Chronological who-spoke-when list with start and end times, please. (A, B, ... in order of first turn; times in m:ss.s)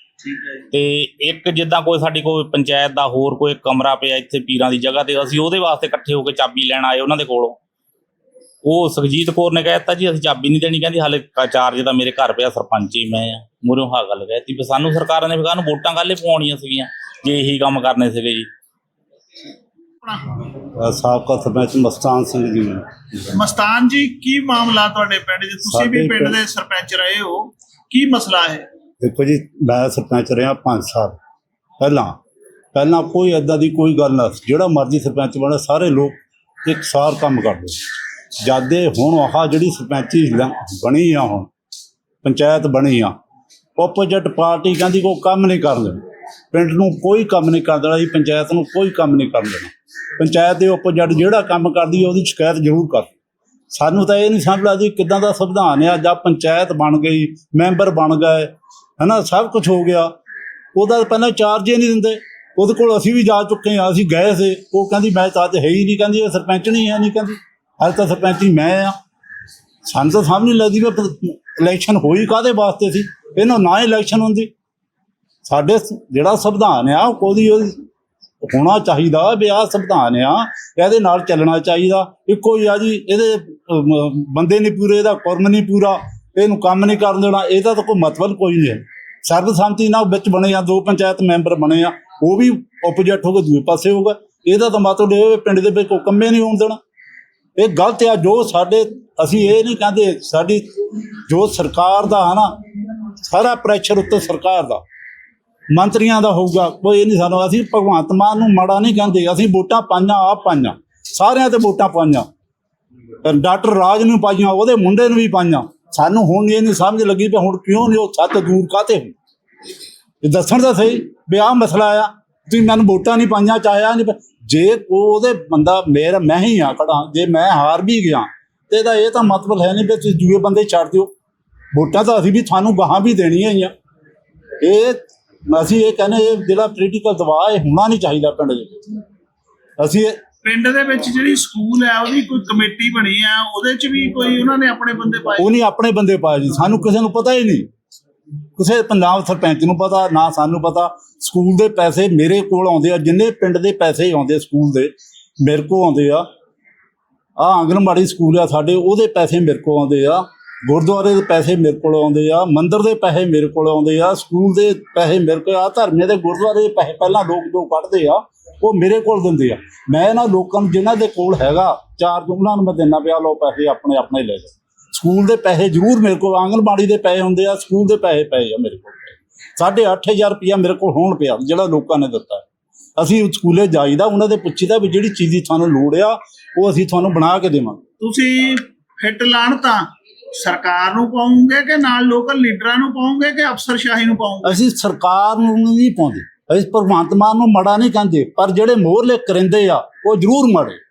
0:00.2-0:00.6 A
0:00.7-0:07.6 B
0:08.6-0:18.5 B
0:20.8-0:23.0 C
0:23.3-0:28.6 A
0:25.7-0:26.4 C
0:29.0-0:31.2 C
0:31.8-0:32.2 C
0:32.7-0:37.8 C
0:38.4-0:41.5 C
0:42.2-0:43.1 C
0:43.8-0:46.0 C
0:46.5-0:53.1 C
0:53.7-1:00.1 C
1:00.7-1:08.9 C
1:09.9-1:14.5 C
1:15.4-1:17.8 C
1:18.4-1:36.8 C
1:37.6-1:40.6 C
1:41.3-1:42.6 C
1:43.2-1:44.8 C
1:45.7-1:52.2 C
1:53.2-1:59.1 C
2:00.2-2:11.1 C
2:11.7-2:13.7 C
2:14.6-2:18.8 C
2:19.8-2:20.2 C
2:20.4-2:25.5 A
2:25.4-2:27.7 C
2:28.6-2:36.2 C
2:37.4-3:02.4 C
3:03.0-3:07.8 C
3:08.0-3:14.6 A
3:14.4-3:20.8 C